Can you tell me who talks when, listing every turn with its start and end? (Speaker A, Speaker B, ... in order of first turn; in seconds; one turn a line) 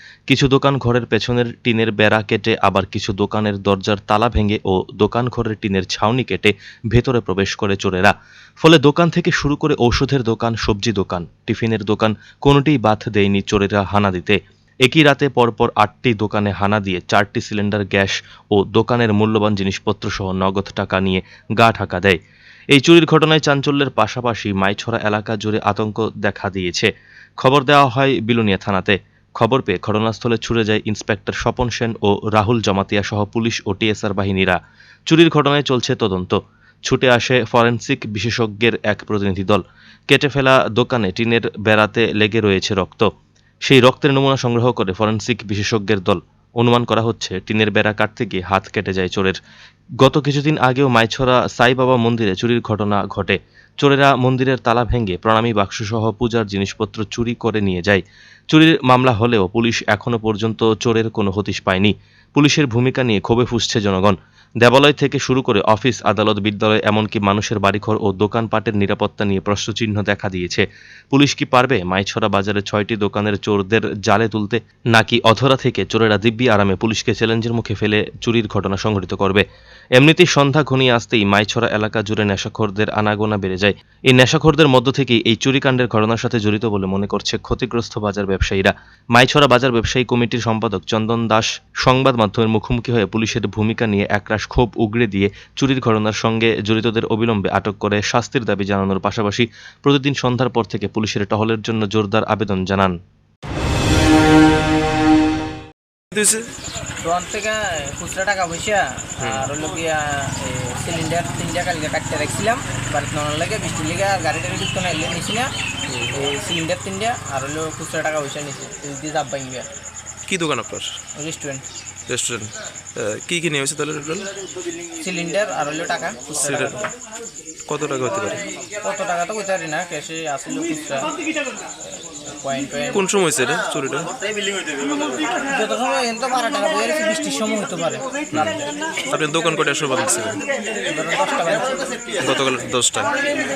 Speaker A: 0.3-22.2
Speaker A: 22.7-43.1
Speaker A: 43.6-49.4
Speaker A: 50.0-79.4
Speaker A: 80.0-103.0
Speaker B: 106.1-106.5
Speaker C: 107.0-115.5
Speaker B: 109.2-109.5
Speaker B: 115.9-116.2
Speaker C: 116.1-119.7
Speaker B: 120.3-120.9
Speaker C: 121.2-121.7
Speaker B: 122.1-124.3
Speaker C: 125.0-126.9
Speaker B: 126.4-126.8
Speaker B: 127.7-128.4
Speaker C: 128.8-131.1
Speaker C: 131.9-133.0
Speaker B: 132.9-134.1
Speaker C: 135.5-138.6
Speaker B: 138.3-140.4
Speaker C: 140.9-142.0
Speaker B: 142.2-143.1